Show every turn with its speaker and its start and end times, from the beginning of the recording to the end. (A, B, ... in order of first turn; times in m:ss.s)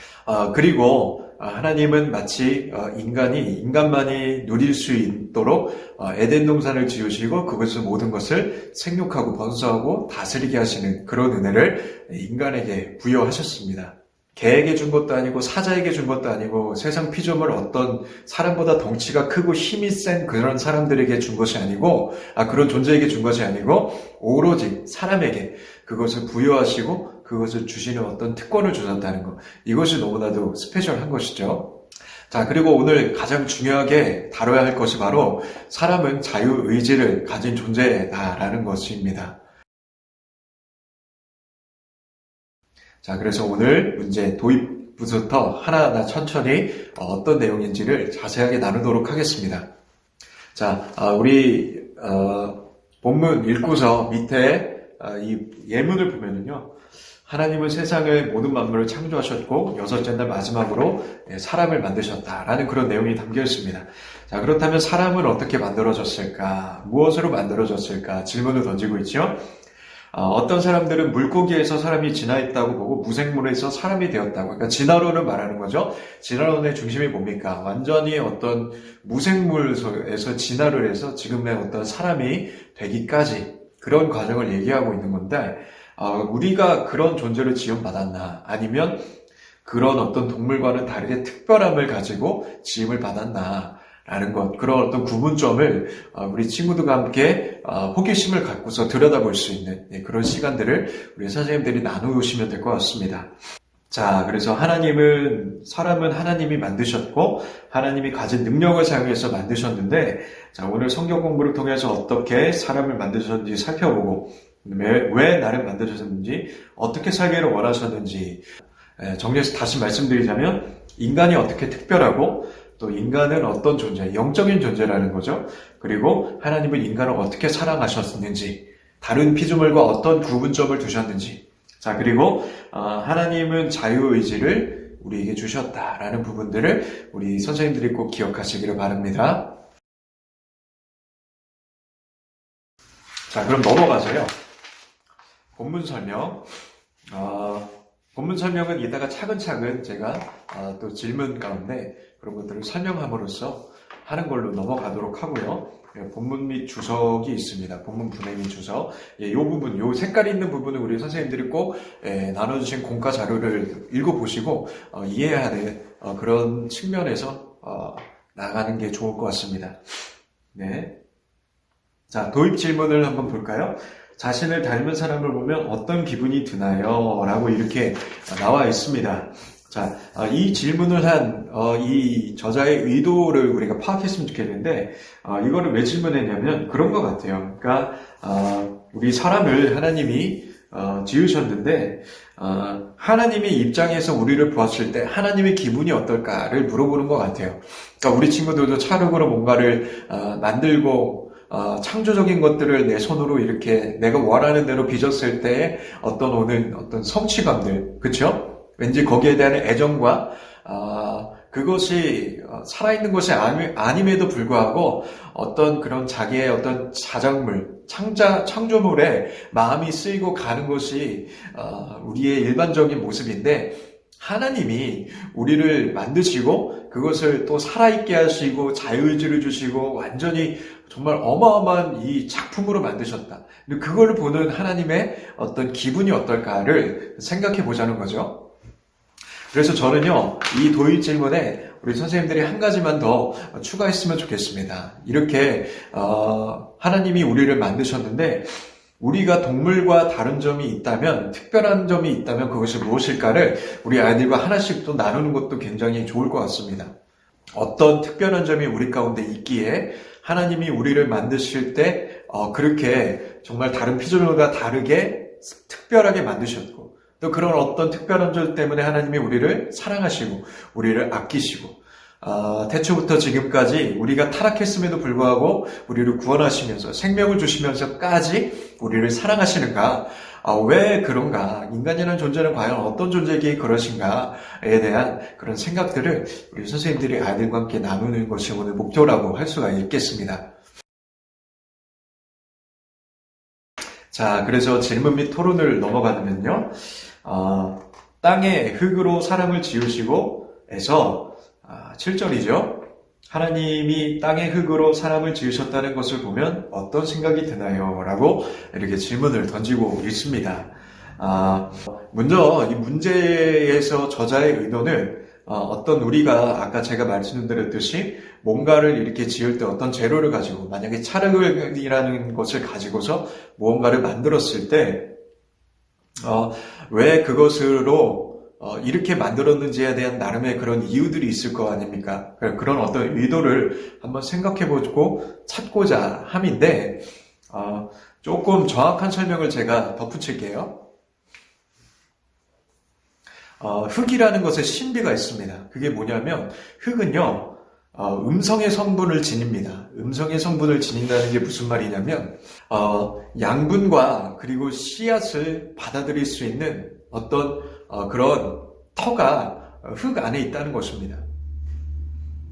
0:00.2-0:31.7 A
0:32.3-0:39.4 A
0:43.0-0:49.7 A
0:50.5-0:56.7 A
0:57.2-1:09.4 A
1:10.1-1:29.1 A
1:29.6-1:43.3 A
1:43.9-1:58.4 A
1:59.0-2:19.5 A
2:23.3-2:24.3 A
2:25.6-2:50.9 A
2:52.1-3:58.5 A
3:59.5-4:16.9 A
4:17.5-4:50.4 A
4:54.1-5:25.1 A
5:26.2-5:40.8 A
5:43.6-6:01.2 A